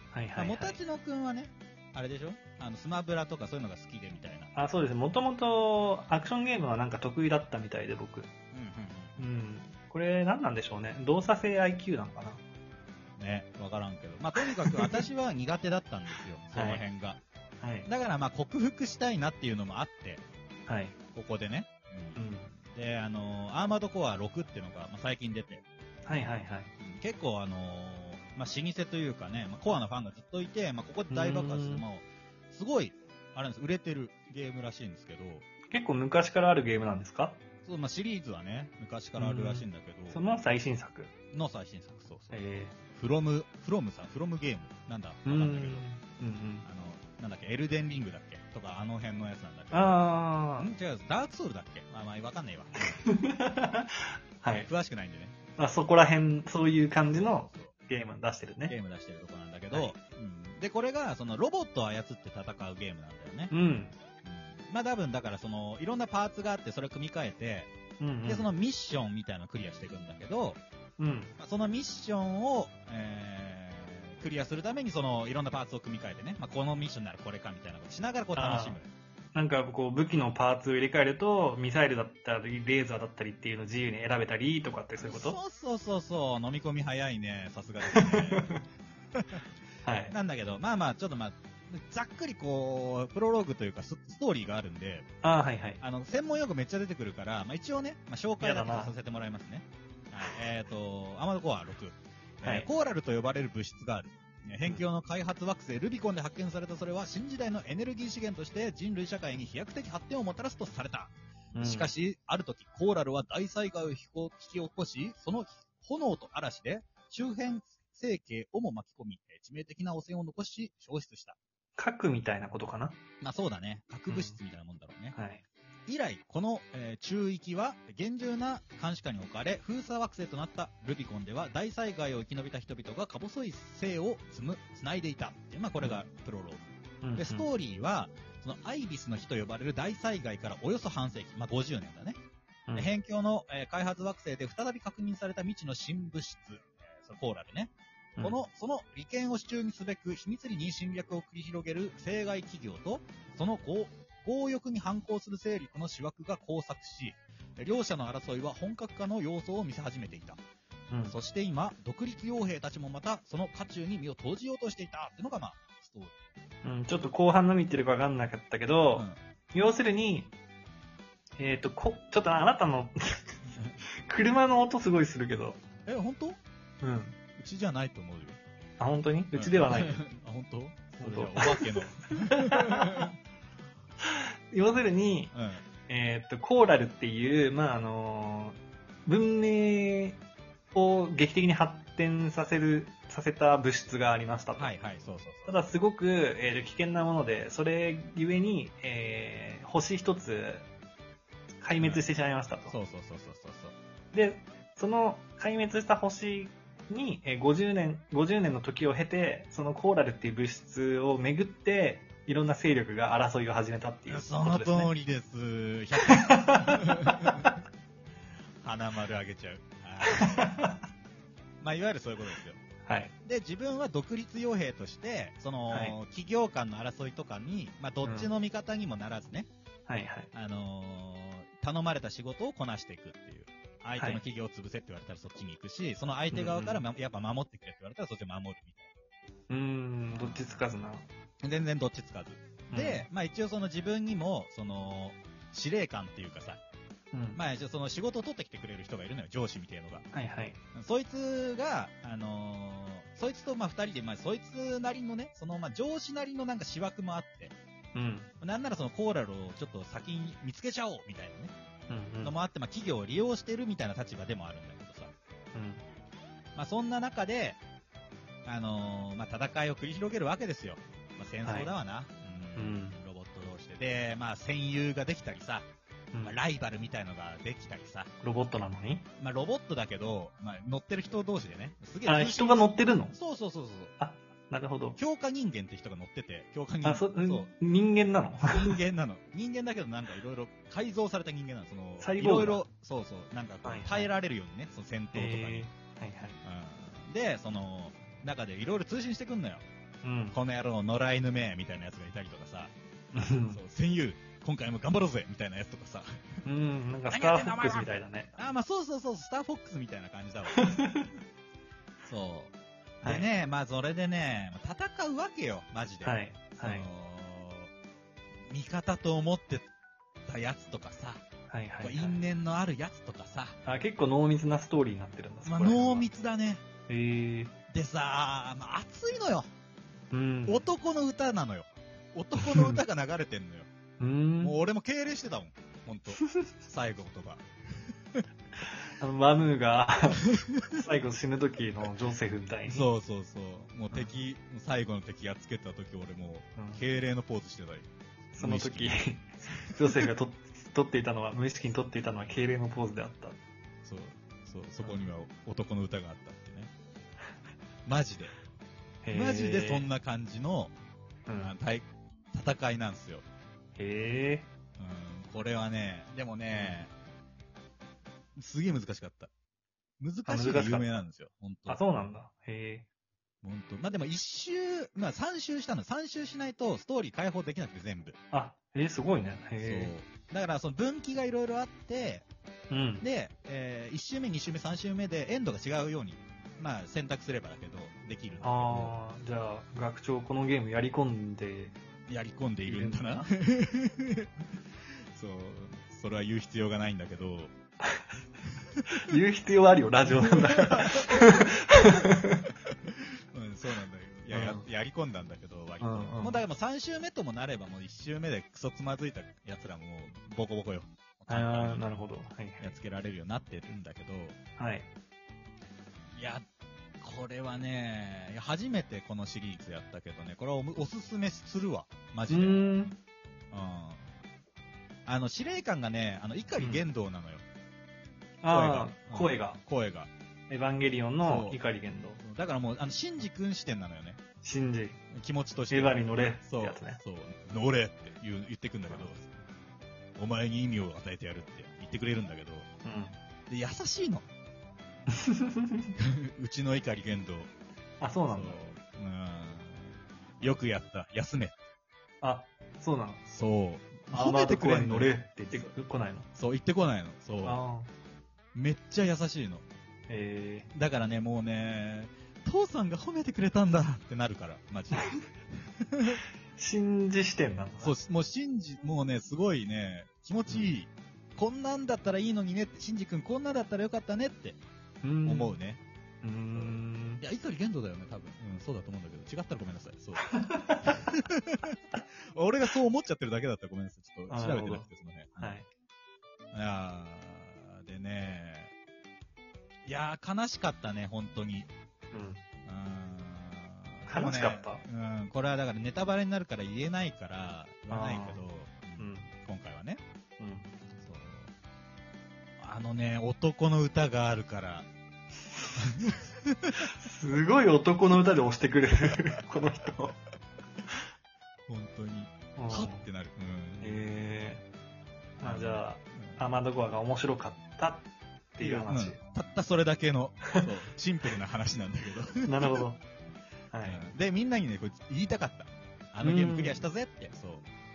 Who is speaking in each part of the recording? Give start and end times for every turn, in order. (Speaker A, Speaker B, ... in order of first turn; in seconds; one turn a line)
Speaker A: 0.1-0.8
Speaker B: 0.4-4.5
Speaker A: 4.5-8.3
Speaker B: 8.5-9.2
Speaker A: 9.2-12.4
Speaker B: 13.2-17.2
Speaker A: 14.6-15.0
Speaker A: 16.5-16.8
Speaker A: 17.6-17.9
Speaker B: 17.9-20.2
Speaker A: 20.7-20.9
Speaker B: 21.1-25.6
Speaker A: 22.1-22.5
Speaker A: 26.1-26.7
Speaker B: 26.8-35.5
Speaker A: 31.1-31.8
Speaker A: 35.7-37.4
Speaker B: 37.6-40.2
Speaker A: 39.1-41.1
Speaker B: 41.3-42.4
Speaker A: 42.3-42.8
Speaker B: 42.9-45.8
Speaker A: 45.2-46.6
Speaker B: 46.6-50.0
Speaker A: 49.7-50.7
Speaker B: 50.6-52.9
Speaker A: 53.0-54.7
Speaker B: 54.5-55.3
Speaker A: 55.6-58.7
Speaker B: 57.1-57.7
Speaker B: 58.7-63.5
Speaker A: 63.5-63.9
Speaker B: 64.2-67.7
Speaker A: 68.0-68.5
Speaker B: 68.3-70.6
Speaker A: 71.0-71.3
Speaker B: 71.4-78.9
Speaker A: 78.3-78.8
Speaker A: 79.3-85.4
Speaker B: 85.0-88.5
Speaker A: 87.9-88.6
Speaker B: 89.1-89.4
Speaker A: 89.8-90.1
Speaker B: 90.1-95.1
Speaker A: 95.2-95.8
Speaker B: 95.8-121.4
Speaker A: 98.4-98.9
Speaker A: 102.4-102.7
Speaker A: 111.5-111.9
Speaker A: 121.8-123.0
Speaker B: 123.2-125.2
Speaker A: 124.1-124.4
Speaker A: 125.1-125.4
Speaker B: 125.9-142.2
Speaker A: 137.0-137.5
Speaker B: 142.8-160.4
Speaker A: 160.9-161.2
Speaker B: 161.0-166.1
Speaker A: 166.6-170.3
Speaker A: 171.4-173.4
Speaker A: 174.0-175.6
Speaker B: 175.8-176.4
Speaker A: 176.8-177.2
Speaker B: 177.3-178.4
Speaker A: 178.8-180.0
Speaker B: 179.3-183.1
Speaker A: 181.0-183.1
Speaker A: 184.5-185.3
Speaker B: 185.3-185.6
Speaker A: 185.9-190.2
Speaker A: 190.7-194.7
Speaker B: 194.6-195.6
Speaker A: 195.4-200.7
Speaker A: 201.6-202.8
Speaker B: 201.8-202.0
Speaker B: 202.7-203.8
Speaker A: 204.1-214.9
Speaker B: 214.1-217.3
Speaker A: 216.0-216.8
Speaker B: 218.6-220.5
Speaker A: 220.0-220.8
Speaker B: 221.6-222.6
Speaker A: 222.8-223.1
Speaker B: 223.2-229.5
Speaker A: 225.7-225.9
Speaker A: 228.0-228.3
Speaker A: 229.9-230.3
Speaker B: 230.3-238.9
Speaker A: 236.3-236.8
Speaker A: 239.5-241.1
Speaker B: 240.1-240.5
Speaker B: 241.4-246.6
Speaker A: 242.7-243.1
Speaker A: 247.1-247.4
Speaker B: 247.3-250.1
Speaker A: 250.1-250.6
Speaker B: 250.7-257.5
Speaker A: 257.9-258.3
Speaker B: 258.4-261.5
Speaker A: 261.9-262.3
Speaker B: 262.2-265.1
Speaker A: 265.5-265.8
Speaker B: 266.5-267.6
Speaker B: 268.4-275.6
Speaker A: 271.4-271.7
Speaker A: 272.6-273.0
Speaker B: 276.2-278.1
Speaker A: 278.2-279.1
Speaker B: 279.2-283.9
Speaker A: 282.1-283.1
Speaker A: 284.0-285.0
Speaker B: 285.0-287.5
Speaker A: 286.8-288.8
Speaker B: 288.4-295.7
Speaker A: 292.0-292.6
Speaker A: 293.6-294.1
Speaker A: 295.1-296.4
Speaker B: 296.4-299.6
Speaker A: 300.0-300.4
Speaker B: 300.3-302.7
Speaker A: 303.1-303.6
Speaker B: 303.5-306.4
Speaker A: 306.4-308.3
Speaker B: 307.1-310.6
Speaker A: 310.5-311.1
Speaker B: 312.1-312.5
Speaker B: 313.0-317.7
Speaker A: 316.0-316.9
Speaker B: 318.5-319.7
Speaker B: 320.3-321.2
Speaker A: 321.5-322.2
Speaker B: 321.8-323.6
Speaker A: 323.6-326.1
Speaker B: 325.4-326.6
Speaker A: 326.9-327.5
Speaker B: 327.7-329.5
Speaker A: 330.1-330.6
Speaker B: 330.5-333.7
Speaker A: 332.4-332.8
Speaker A: 334.0-334.6
Speaker B: 334.4-337.4
Speaker A: 336.2-336.4
Speaker A: 339.0-342.9
Speaker B: 342.7-349.0
Speaker A: 346.6-346.8
Speaker A: 348.4-353.4
Speaker B: 353.8-356.7
Speaker A: 354.8-355.1
Speaker B: 357.9-358.4
Speaker A: 359.0-359.9
Speaker B: 359.1-360.7
Speaker A: 361.3-361.5
Speaker B: 361.4-363.2
Speaker A: 363.8-364.5
Speaker B: 364.8-366.9
Speaker A: 366.5-366.8
Speaker B: 368.4-369.3
Speaker B: 370.0-371.8
Speaker A: 370.2-370.9
Speaker A: 371.7-372.9
Speaker B: 373.4-378.2
Speaker A: 378.3-379.9
Speaker B: 379.6-382.2
Speaker A: 382.7-383.1
Speaker B: 383.0-389.0
Speaker A: 388.4-391.8
Speaker B: 392.1-394.3
Speaker A: 392.6-393.3
Speaker B: 395.1-397.5
Speaker A: 399.1-402.4
Speaker B: 400.8-402.1
Speaker B: 402.9-411.9
Speaker A: 404.3-404.6
Speaker A: 405.8-406.4
Speaker A: 411.3-412.8
Speaker B: 412.6-414.4
Speaker A: 414.6-414.9
Speaker B: 416.1-416.4
Speaker B: 417.0-422.6
Speaker A: 422.3-423.0
Speaker B: 423.5-424.1
Speaker B: 425.1-427.4
Speaker A: 426.6-426.8
Speaker A: 428.4-429.6
Speaker B: 428.5-430.1
Speaker A: 430.5-432.2
Speaker B: 431.2-431.6
Speaker B: 432.2-434.2
Speaker A: 434.4-435.0
Speaker B: 435.1-439.4
Speaker A: 435.7-437.0
Speaker B: 440.2-442.7
Speaker A: 442.9-443.2
Speaker B: 443.5-444.2
Speaker A: 445.1-445.9
Speaker B: 446.0-447.5
Speaker A: 448.0-448.6
Speaker B: 448.3-451.6
Speaker A: 452.2-453.2
Speaker B: 453.3-455.8
Speaker A: 454.1-456.3
Speaker B: 456.3-457.6
Speaker A: 457.4-457.9
Speaker B: 458.5-459.6
Speaker A: 460.1-460.7
Speaker B: 460.7-466.2
Speaker A: 466.6-467.9
Speaker B: 467.8-474.6
Speaker A: 470.5-470.7
Speaker A: 475.0-475.6
Speaker B: 475.2-475.8
Speaker A: 476.2-477.2
Speaker B: 476.5-485.6
Speaker A: 480.2-480.9
Speaker A: 484.3-484.9
Speaker A: 485.4-485.7
Speaker B: 486.5-488.7
Speaker B: 489.9-491.7
Speaker A: 492.1-492.4
Speaker B: 492.6-500.0
Speaker A: 494.1-494.8
Speaker A: 497.9-498.4
Speaker A: 499.0-499.3
Speaker A: 500.4-500.7
Speaker B: 501.0-501.5
Speaker B: 502.6-504.9
Speaker B: 505.8-506.7
Speaker A: 507.0-510.2
Speaker B: 511.7-514.1
Speaker A: 512.6-513.0
Speaker A: 513.8-514.6
Speaker B: 515.4-516.4
Speaker A: 515.4-519.2
Speaker B: 518.6-522.8
Speaker A: 522.4-523.0
Speaker A: 523.7-524.0
Speaker B: 523.8-527.6
Speaker A: 526.2-526.9